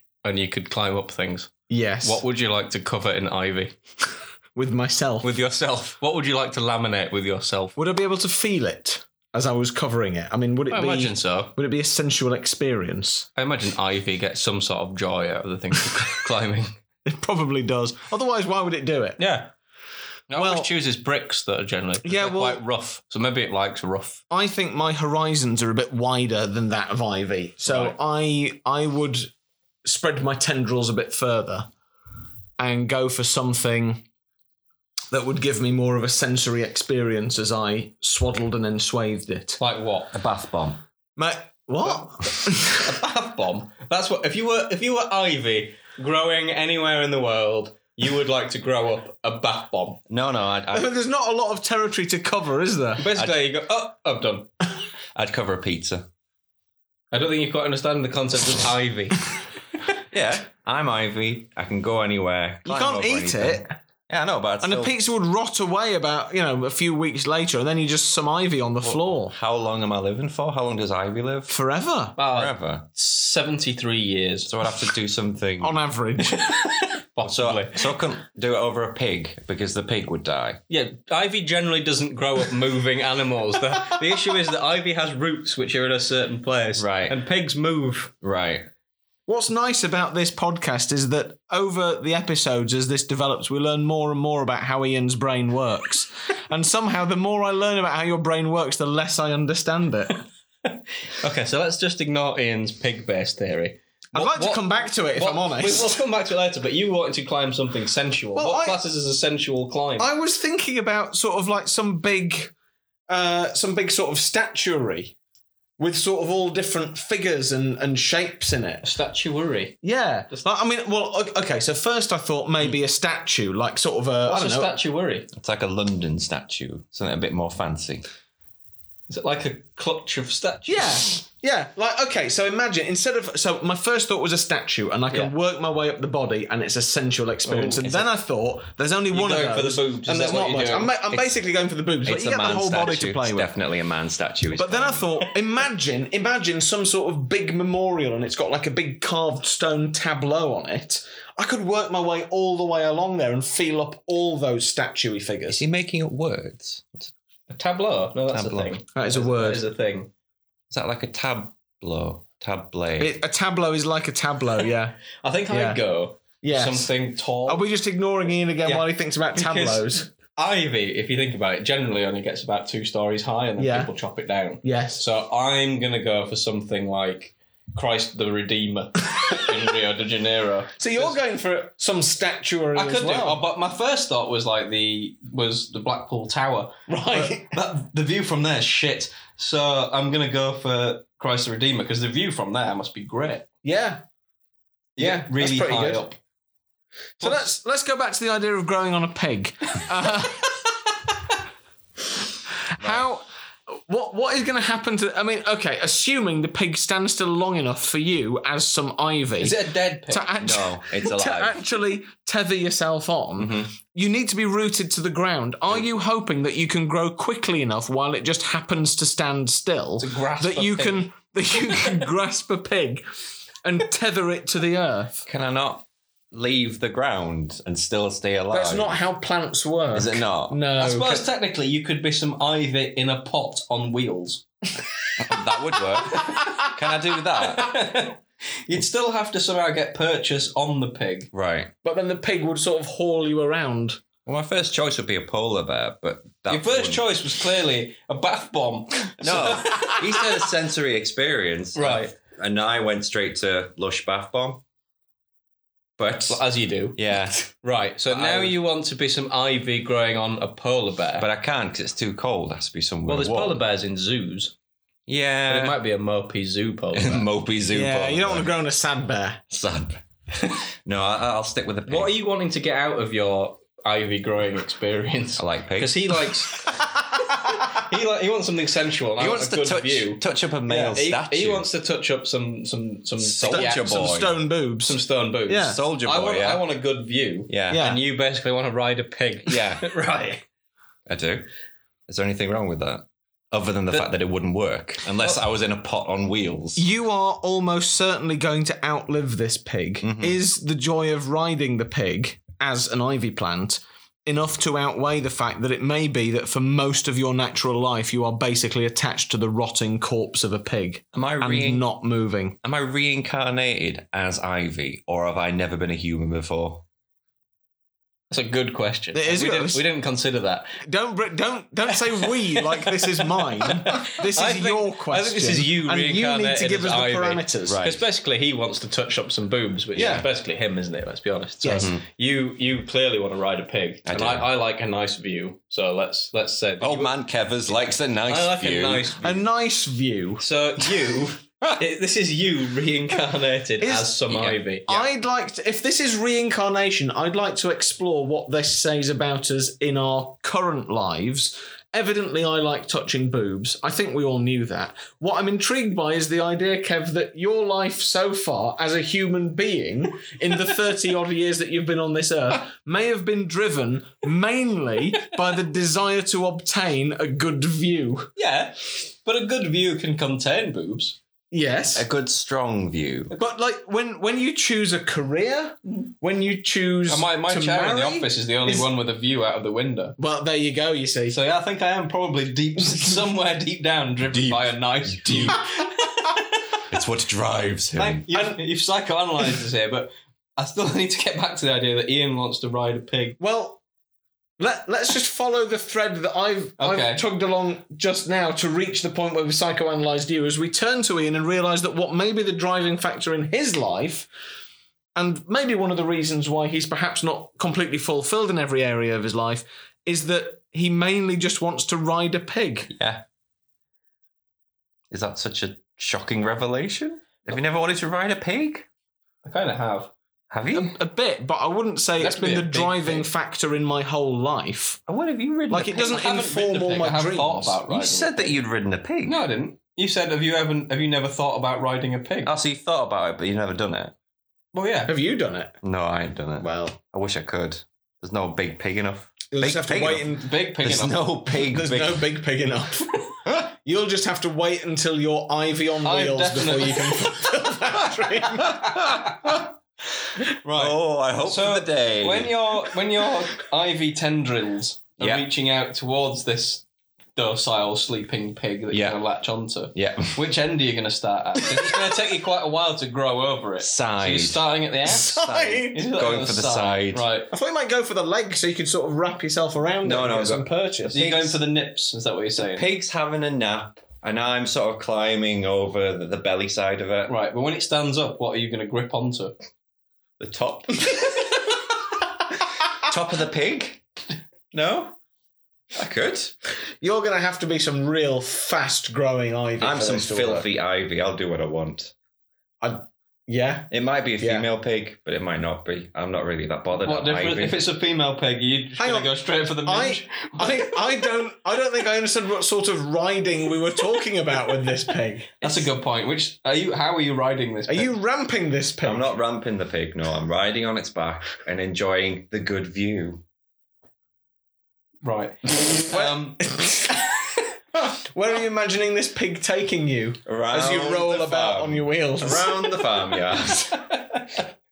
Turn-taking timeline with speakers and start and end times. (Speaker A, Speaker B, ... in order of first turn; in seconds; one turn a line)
Speaker A: 0.2-1.5
Speaker B: 1.7-2.2
Speaker A: 2.0-3.7
Speaker B: 4.5-5.3
Speaker A: 5.2-7.8
Speaker B: 7.8-13.3
Speaker A: 10.7-11.6
Speaker A: 13.4-16.7
Speaker B: 17.1-19.2
Speaker A: 19.2-19.5
Speaker A: 20.3-24.2
Speaker B: 20.4-20.7
Speaker B: 22.0-22.6
Speaker B: 24.3-29.3
Speaker A: 27.7-27.9
Speaker B: 29.9-31.7
Speaker B: 32.6-34.0
Speaker B: 35.1-39.6
Speaker A: 39.6-40.1
Speaker C: 40.1-40.8
Speaker B: 41.2-42.9
Speaker A: 42.7-50.0
Speaker C: 50.1-50.9
Speaker B: 50.7-53.0
Speaker A: 53.0-54.5
Speaker C: 55.1-56.1
Speaker A: 57.1-59.3
Speaker C: 60.1-64.9
Speaker B: 62.6-63.7
Speaker B: 64.6-69.3
Speaker C: 68.8-71.6
Speaker B: 71.5-72.2
Speaker A: 72.2-74.6
Speaker C: 72.3-72.9
Speaker C: 74.5-75.8
Speaker B: 75.6-76.6
Speaker A: 76.4-77.8
Speaker C: 77.2-80.6
Speaker A: 80.7-88.1
Speaker C: 86.8-87.2
Speaker C: 88.2-88.7
Speaker B: 89.3-100.2
Speaker A: 100.7-110.1
Speaker B: 104.2-106.0
Speaker B: 108.3-108.8
Speaker B: 110.0-112.5
Speaker B: 113.1-115.2
Speaker B: 115.8-118.8
Speaker A: 118.8-119.8
Speaker B: 119.8-124.7
Speaker A: 124.3-125.3
Speaker C: 125.3-128.0
Speaker A: 129.1-131.0
Speaker B: 130.7-143.5
Speaker A: 137.5-137.8
Speaker C: 137.8-138.1
Speaker A: 139.1-141.3
Speaker C: 142.1-145.1
Speaker B: 144.5-155.6
Speaker C: 155.5-157.1
Speaker A: 157.5-160.1
Speaker C: 158.3-158.8
Speaker B: 158.9-159.6
Speaker C: 160.7-163.2
Speaker B: 163.0-165.0
Speaker A: 165.2-167.7
Speaker B: 165.5-165.8
Speaker B: 166.4-166.9
Speaker B: 167.5-170.1
Speaker A: 168.7-181.2
Speaker B: 173.6-173.9
Speaker B: 174.6-175.0
Speaker B: 180.8-183.4
Speaker A: 182.8-193.4
Speaker B: 186.9-187.5
Speaker B: 193.6-194.0
Speaker B: 195.0-196.0
Speaker A: 195.0-196.2
Speaker A: 197.2-197.4
Speaker B: 197.2-200.6
Speaker B: 202.8-203.2
Speaker C: 202.8-203.1
Speaker B: 203.9-223.0
Speaker A: 209.4-210.3
Speaker C: 210.4-211.6
Speaker C: 213.4-213.7
Speaker A: 220.0-221.1
Speaker B: 223.6-225.2
Speaker C: 225.3-229.0
Speaker B: 228.5-231.3
Speaker C: 229.9-230.6
Speaker A: 230.8-234.4
Speaker C: 235.2-237.7
Speaker A: 236.1-236.7
Speaker A: 237.4-241.3
Speaker C: 241.3-241.7
Speaker B: 241.8-244.0
Speaker C: 244.3-247.2
Speaker A: 246.5-250.1
Speaker C: 249.2-254.6
Speaker A: 251.8-252.1
Speaker C: 256.0-256.4
Speaker A: 256.3-257.0
Speaker C: 257.0-257.5
Speaker A: 257.6-261.3
Speaker C: 258.1-258.6
Speaker C: 261.2-263.6
Speaker A: 263.1-264.5
Speaker C: 265.1-265.8
Speaker A: 265.5-267.3
Speaker C: 266.9-268.5
Speaker B: 267.7-269.4
Speaker C: 269.5-270.0
Speaker C: 270.9-272.2
Speaker A: 271.9-276.6
Speaker C: 275.4-276.3
Speaker B: 276.7-277.8
Speaker A: 277.2-283.9
Speaker C: 279.2-281.7
Speaker B: 283.3-285.8
Speaker C: 283.4-284.4
Speaker A: 284.8-290.4
Speaker C: 285.6-286.6
Speaker C: 287.5-288.0
Speaker B: 287.7-288.0
Speaker C: 289.5-289.9
Speaker C: 291.1-291.5
Speaker C: 292.1-296.8
Speaker B: 296.8-312.6
Speaker C: 300.0-300.4
Speaker C: 311.1-311.9
Speaker C: 312.6-316.8
Speaker A: 318.3-320.7
Speaker B: 319.1-319.8
Speaker B: 320.8-327.8
Speaker A: 323.2-337.1
Speaker C: 327.7-328.1
Speaker B: 330.0-330.3
Speaker B: 331.6-331.9
Speaker C: 331.8-332.0
Speaker C: 334.1-334.5
Speaker C: 336.8-339.1
Speaker A: 338.3-339.5
Speaker B: 339.2-340.4
Speaker A: 340.4-345.1
Speaker B: 343.8-344.1
Speaker C: 344.3-344.6
Speaker B: 344.9-368.3
Speaker A: 368.4-371.2
Speaker B: 371.5-372.1
Speaker C: 372.0-373.3
Speaker B: 373.3-378.9
Speaker A: 377.1-380.2
Speaker B: 380.2-381.4
Speaker A: 381.3-386.6
Speaker C: 384.3-385.6
Speaker C: 386.9-388.2
Speaker A: 388.0-393.4
Speaker B: 388.3-388.6
Speaker B: 393.4-393.8
Speaker B: 394.6-404.3
Speaker A: 396.8-397.2
Speaker B: 405.1-412.9
Speaker C: 412.9-413.2
Speaker C: 415.1-418.9
Speaker A: 419.4-420.1
Speaker C: 420.5-420.9
Speaker B: 420.7-425.0
Speaker A: 422.2-423.3
Speaker C: 425.1-426.2
Speaker B: 425.7-427.8
Speaker A: 425.9-428.6
Speaker C: 427.9-429.4
Speaker A: 429.2-432.5
Speaker C: 432.4-434.1
Speaker A: 434.7-435.1
Speaker B: 435.1-435.8
Speaker C: 435.8-442.3
Speaker B: 436.6-437.0
Speaker B: 439.5-440.5
Speaker A: 440.4-441.2
Speaker B: 441.5-448.9
Speaker C: 443.4-443.7
Speaker A: 446.0-447.4
Speaker C: 448.2-449.7
Speaker A: 450.6-456.9
Speaker C: 450.7-452.6
Speaker C: 455.2-455.5
Speaker A: 457.4-465.4
Speaker C: 458.9-459.2
Speaker C: 459.9-460.4
Speaker B: 461.9-462.2
Speaker C: 463.8-467.3
Speaker B: 465.1-466.1
Speaker A: 465.9-467.5
Speaker B: 467.5-471.2
Speaker C: 470.0-471.6
Speaker A: 471.1-472.9
Speaker C: 472.6-477.3
Speaker A: 477.3-479.5
Speaker C: 480.4-481.6
Speaker C: 482.8-484.0
Speaker C: 484.7-485.2
Speaker C: 485.9-486.5
Speaker B: 487.0-490.7
Speaker C: 489.8-492.1
Speaker B: 492.8-494.7
Speaker C: 493.9-497.9
Speaker A: 497.1-501.0
Speaker B: 499.0-505.9
Speaker A: 505.6-508.1
Speaker B: 507.9-509.3
Speaker C: 509.0-513.4
Speaker A: 515.2-516.7
Speaker B: 516.0-517.2
Speaker B: 518.0-523.0
Speaker C: 520.5-524.2